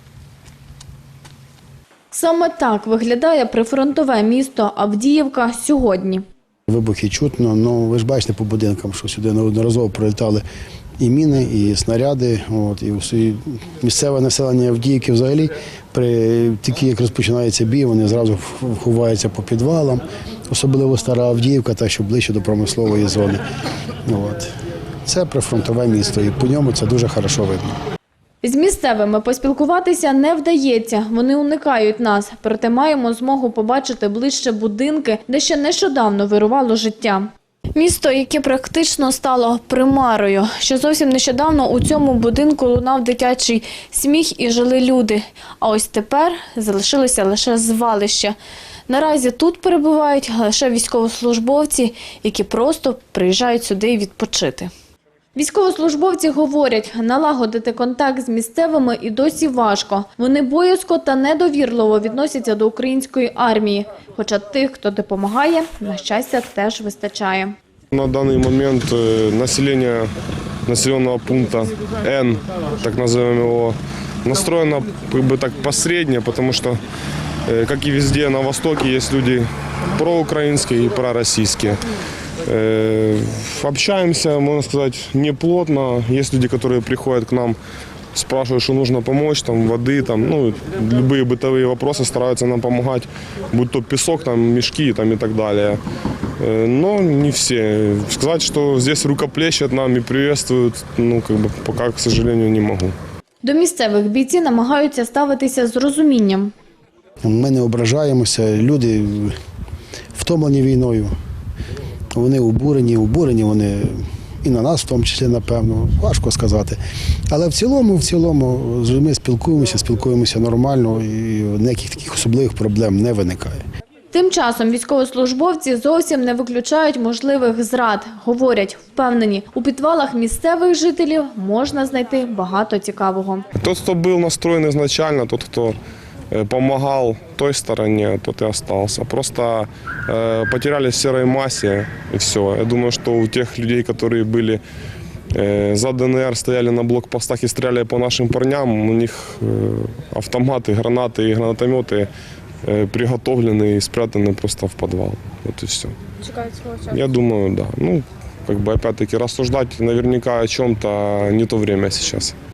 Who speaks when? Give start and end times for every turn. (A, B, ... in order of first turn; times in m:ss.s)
0:02.1-0:06.2 A
0:06.7-0:10.4 B
0:11.0-0:23.4 B
0:24.1-0:24.5 B
0:25.1-0:27.7 B
0:28.4-0:48.4 A
0:48.9-0:54.7 A
0:55.4-1:07.6 A
1:07.9-1:10.1 C
1:10.7-1:16.8 C
1:17.5-1:21.8 C
1:22.4-1:27.6 C
1:28.1-1:35.8 C
1:36.4-1:43.0 C
1:43.4-1:46.5 A
1:47.2-1:49.4 B
1:50.2-1:51.1 B
1:52.2-1:56.8 B
1:57.3-2:03.6 B
2:04.1-2:13.5 A
2:13.6-2:15.8 C
2:16.3-2:24.6 C
2:25.3-2:32.1 C
2:32.6-2:42.4 C
2:36.4-2:36.7 A